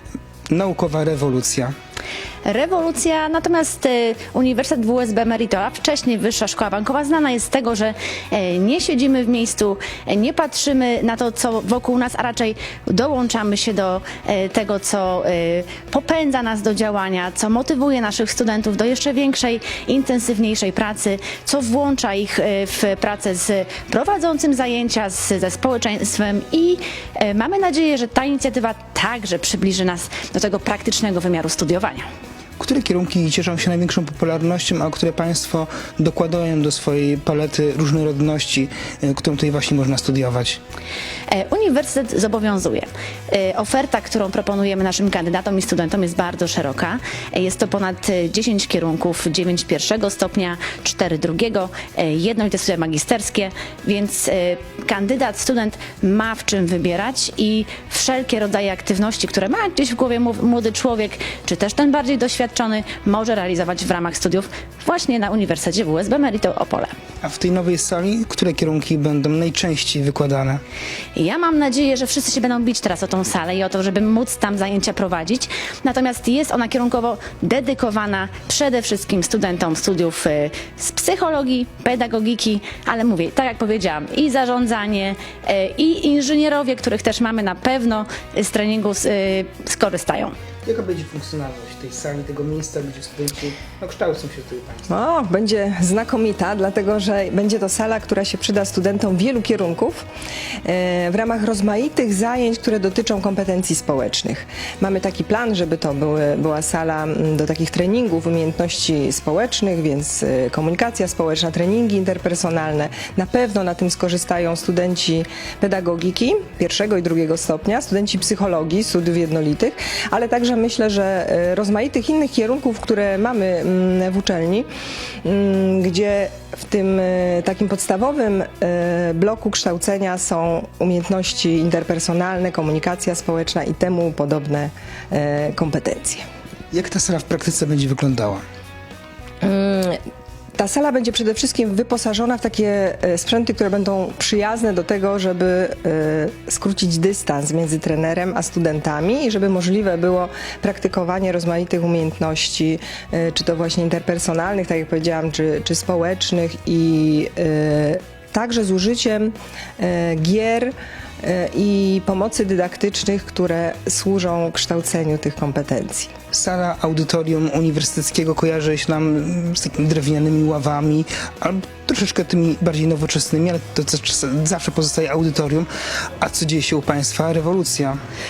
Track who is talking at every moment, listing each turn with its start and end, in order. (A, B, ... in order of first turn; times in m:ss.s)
0:00.5-0:01.7 A
0:02.4-0:32.1 B
0:32.6-0:40.6 A
0:41.3-1:06.9 B
1:07.2-1:10.6 A
1:11.2-1:30.3 B
1:30.6-1:34.9 A
1:34.9-1:40.0 C
1:40.6-2:04.7 C
2:05.2-2:16.2 C
2:16.7-2:18.4 A
2:19.4-2:20.0 C
2:20.6-2:46.1 C
2:46.3-2:55.7 A
2:56.2-2:58.0 A